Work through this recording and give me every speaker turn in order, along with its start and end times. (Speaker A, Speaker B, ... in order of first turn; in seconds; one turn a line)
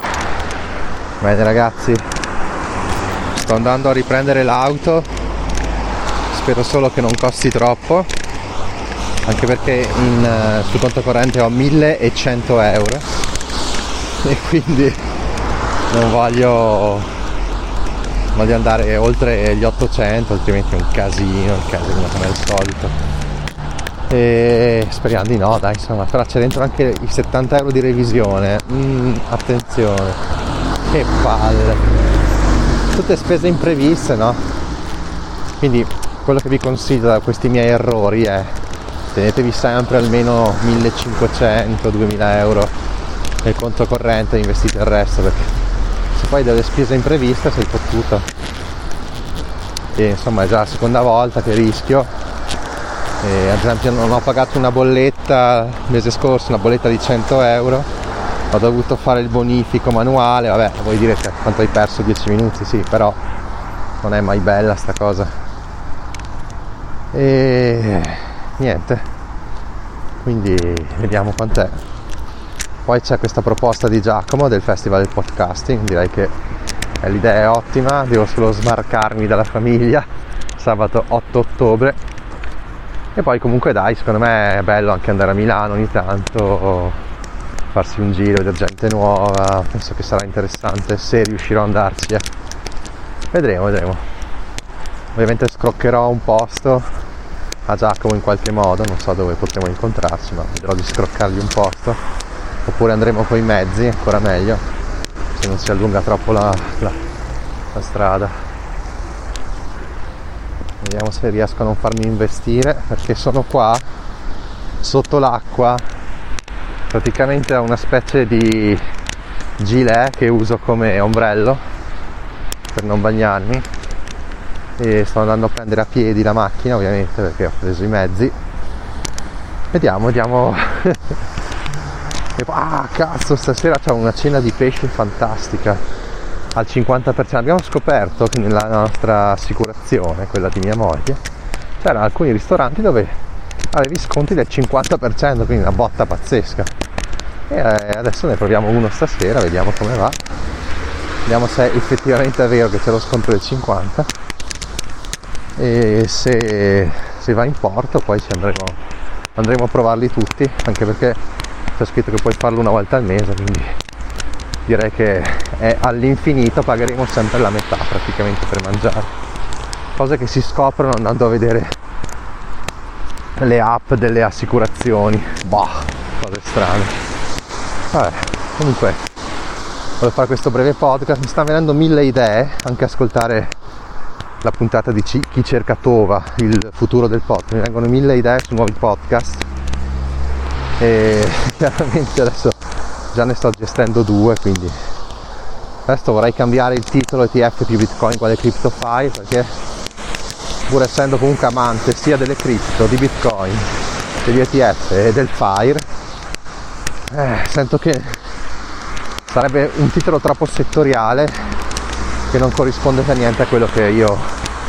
Speaker A: 1.2-2.0
Speaker A: 3.3-5.1
Speaker A: 6.3-8.1
Speaker A: 9.2-13.1
Speaker A: 14.2-15.0
Speaker A: 15.9-17.1
Speaker A: 18.3-22.9
Speaker A: 24.1-30.2
Speaker A: 30.9-31.9
Speaker A: 32.9-34.4
Speaker A: 35.6-38.5
Speaker A: 39.1-42.7
Speaker A: 43.4-45.5
Speaker A: 46.1-48.2
Speaker A: 50.0-52.1
Speaker A: 53.2-57.9
Speaker A: 58.5-63.2
Speaker A: 64.0-65.3
Speaker A: 67.1-69.0
Speaker A: 70.2-71.8
Speaker A: 72.8-76.3
Speaker A: 77.0-80.1
Speaker A: 80.6-82.0
Speaker A: 83.2-87.0
Speaker A: 87.7-92.2
Speaker A: 93.3-94.0
Speaker A: 95.1-96.9
Speaker A: 97.7-102.0
Speaker A: 102.6-104.6
Speaker A: 105.3-107.0
Speaker A: 107.7-108.3
Speaker A: 110.8-113.8
Speaker A: 114.8-115.8
Speaker A: 116.9-118.8
Speaker A: 119.6-121.6
Speaker A: 122.7-123.7
Speaker A: 124.8-128.3
Speaker A: 129.7-131.2
Speaker A: 132.4-135.8
Speaker A: 136.5-141.2
Speaker A: 141.8-143.1
Speaker A: 143.7-146.7
Speaker A: 147.5-150.2
Speaker A: 151.2-154.1
Speaker A: 155.6-158.8
Speaker A: 159.3-161.2
Speaker A: 161.8-163.8
Speaker A: 164.7-169.1
Speaker A: 170.0-171.7
Speaker A: 173.4-177.0
Speaker A: 177.9-179.0
Speaker A: 180.0-183.5
Speaker A: 184.4-189.4
Speaker A: 190.8-192.6
Speaker A: 193.1-194.7
Speaker A: 195.8-199.5
Speaker A: 200.7-203.7
Speaker A: 204.2-205.8
Speaker A: 207.1-208.2
Speaker A: 209.3-211.3
Speaker A: 212.3-214.3